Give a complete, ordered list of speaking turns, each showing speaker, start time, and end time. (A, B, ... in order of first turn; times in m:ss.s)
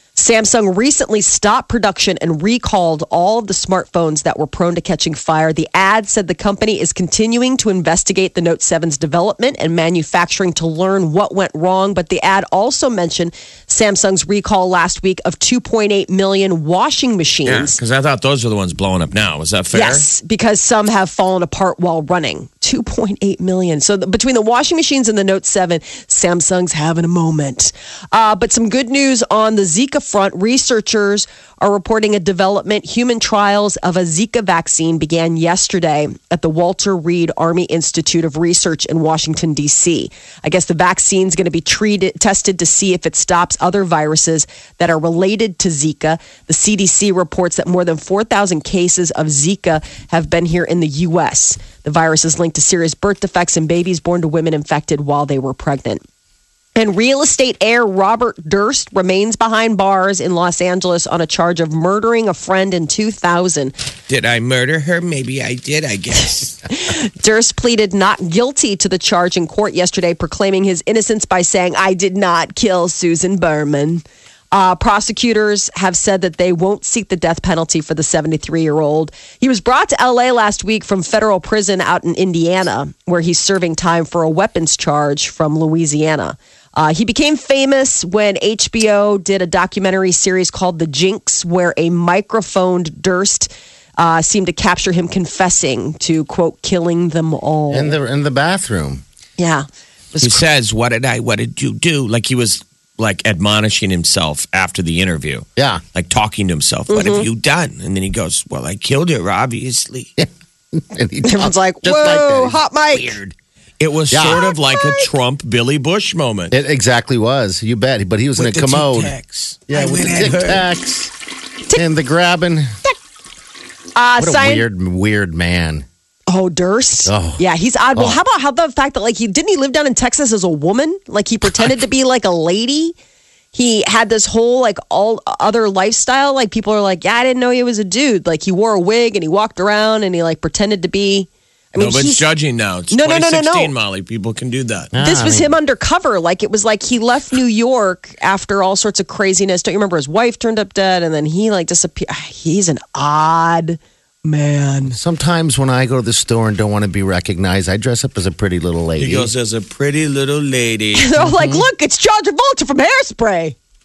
0:00.2-0:17.8 A
0:17.4-0:20.0 B
0:19.7-0:56.0 A
0:56.8-1:03.7 A
1:04.1-1:06.6 B
1:06.7-1:38.0 A
1:37.7-1:39.0 C
1:39.4-1:40.4 A
1:40.2-1:50.1 B
1:45.6-1:45.8 C
1:46.9-1:47.2 A
1:50.2-1:53.3 C
1:51.2-1:53.2 A
1:53.8-1:56.6 B
1:54.1-1:54.4 C
1:54.4-1:55.1 A
1:56.5-1:59.1 C
1:58.4-2:00.7 B
1:59.7-2:01.1 C
2:01.7-2:02.7 C
2:04.0-2:04.6 A
2:04.2-2:05.8 C
2:06.3-2:13.0 A
2:07.0-2:07.4 C
2:13.5-2:22.2 A
2:21.8-2:24.9 B
2:22.9-2:23.7 A
2:24.9-2:25.5 C
2:25.0-2:35.0 A
2:34.9-2:39.3 C
2:39.0-2:41.1 B
2:40.9-2:43.6 A
2:41.2-2:41.6 C